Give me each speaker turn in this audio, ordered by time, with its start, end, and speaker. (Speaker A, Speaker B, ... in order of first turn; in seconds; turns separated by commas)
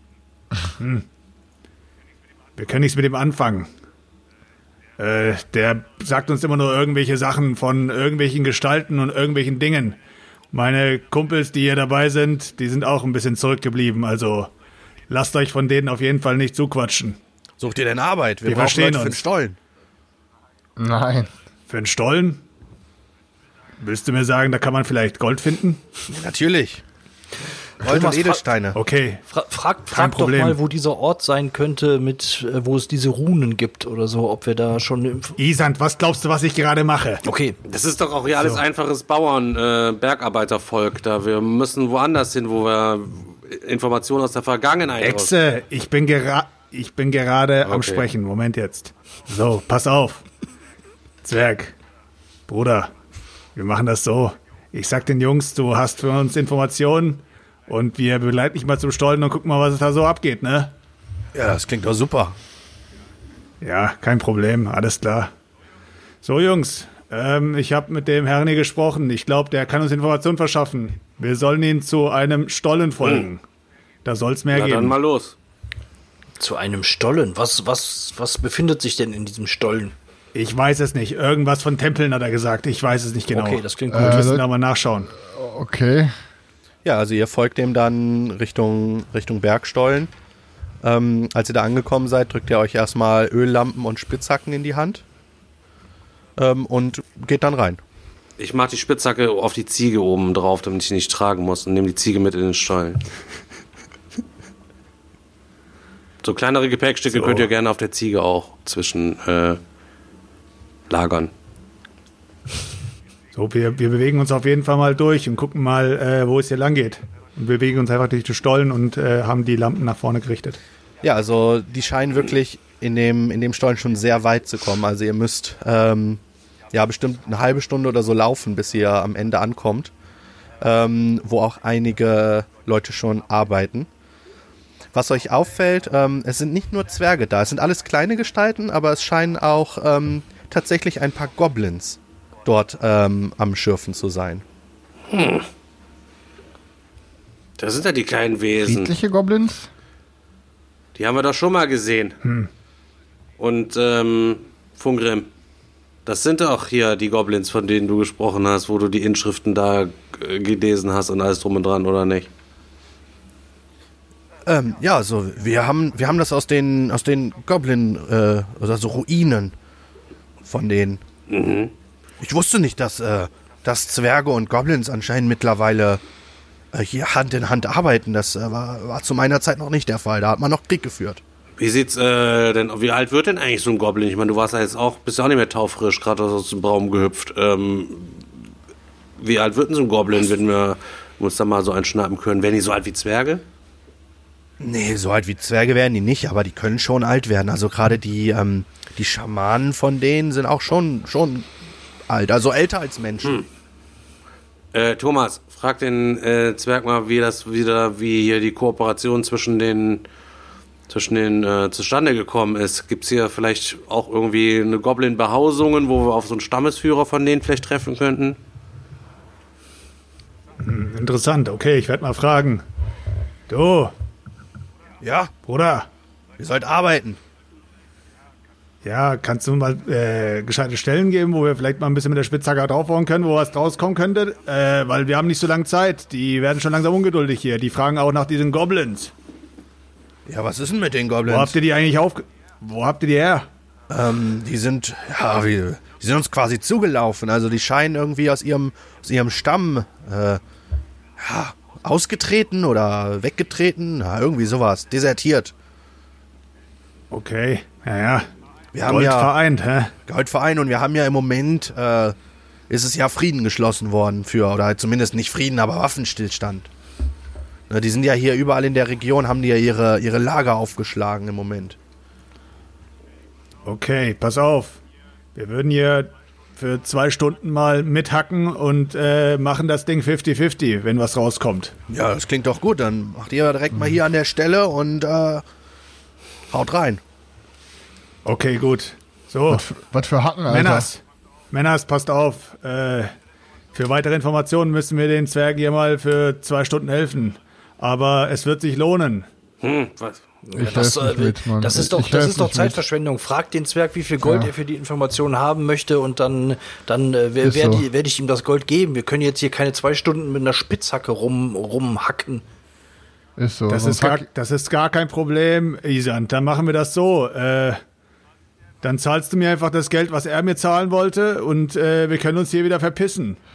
Speaker A: 0.8-1.1, Speaker A: 2.6-3.7, Speaker A: 5.0-10.0, Speaker A: 10.5-14.5, Speaker A: 15.1-17.2, Speaker B: 17.6-19.6, Speaker A: 18.4-19.2, Speaker C: 20.8-21.3, Speaker A: 21.7-22.4, Speaker A: 23.8-25.8, Speaker B: 26.1-26.8, Speaker B: 27.8-28.8, Speaker D: 27.8-28.4, Speaker A: 28.8-29.2, Speaker D: 29.3-35.4, Speaker A: 29.9-30.6, Speaker A: 35.4-37.2, Speaker D: 37.2-37.6, Speaker E: 37.7-45.3, Speaker A: 45.0-50.2, Speaker E: 47.6-48.0, Speaker A: 51.2-51.8, Speaker A: 52.5-52.9, Speaker A: 53.5-60.8, Speaker B: 61.3-62.4, Speaker A: 63.6-65.3, Speaker A: 66.2-73.4, Speaker E: 73.0-73.3, Speaker A: 74.0-75.0, Speaker E: 74.5-75.3, Speaker D: 76.4-80.0, Speaker A: 80.3-85.1, Speaker D: 83.3-84.3, Speaker C: 83.9-84.5, Speaker C: 85.2-86.1, Speaker B: 86.8-90.1, Speaker B: 90.8-95.0, Speaker B: 96.4-97.8, Speaker E: 98.4-103.0, Speaker E: 106.2-109.6, Speaker A: 107.2-107.5, Speaker E: 110.9-111.3, Speaker A: 113.3-120.6, Speaker B: 121.0-126.2, Speaker B: 126.7-129.9, Speaker B: 130.6-133.9, Speaker B: 134.9-144.4, Speaker E: 145.1-145.5, Speaker E: 147.6-148.9, Speaker C: 148.6-149.7, Speaker E: 150.9-152.2, Speaker A: 152.2-152.5, Speaker E: 153.4-155.3, Speaker E: 156.1-162.3, Speaker B: 164.5-169.6, Speaker B: 170.4-171.0, Speaker E: 171.3-171.7, Speaker B: 172.2-176.0, Speaker B: 176.7-181.2, Speaker E: 181.6-188.3, Speaker E: 189.2-193.4, Speaker B: 194.6-201.5, Speaker B: 202.1-203.5, Speaker E: 204.7-210.0, Speaker E: 210.9-218.4, Speaker A: 220.6-222.6, Speaker A: 223.5-223.9, Speaker B: 225.0-225.3, Speaker A: 225.4-225.9, Speaker B: 226.4-227.2, Speaker A: 228.8-239.1, Speaker B: 240.3-241.6, Speaker A: 241.2-243.5, Speaker B: 243.9-250.4, Speaker B: 251.2-255.5, Speaker A: 257.1-258.3, Speaker B: 258.7-259.4, Speaker A: 258.8-260.0, Speaker B: 260.0-262.2, Speaker B: 262.7-266.7, Speaker B: 267.7-271.8, Speaker A: 273.6-274.8, Speaker A: 275.4-281.8, Speaker B: 281.9-285.4, Speaker B: 286.5-287.0, Speaker A: 288.2-289.7, Speaker C: 289.5-290.9, Speaker A: 290.5-293.1, Speaker A: 293.7-299.3, Speaker E: 299.6-300.2, Speaker D: 300.5-312.4, Speaker C: 300.6-302.8, Speaker C: 304.2-304.5, Speaker C: 307.4-307.9, Speaker C: 313.4-314.3, Speaker A: 313.7-317.8, Speaker A: 318.8-323.4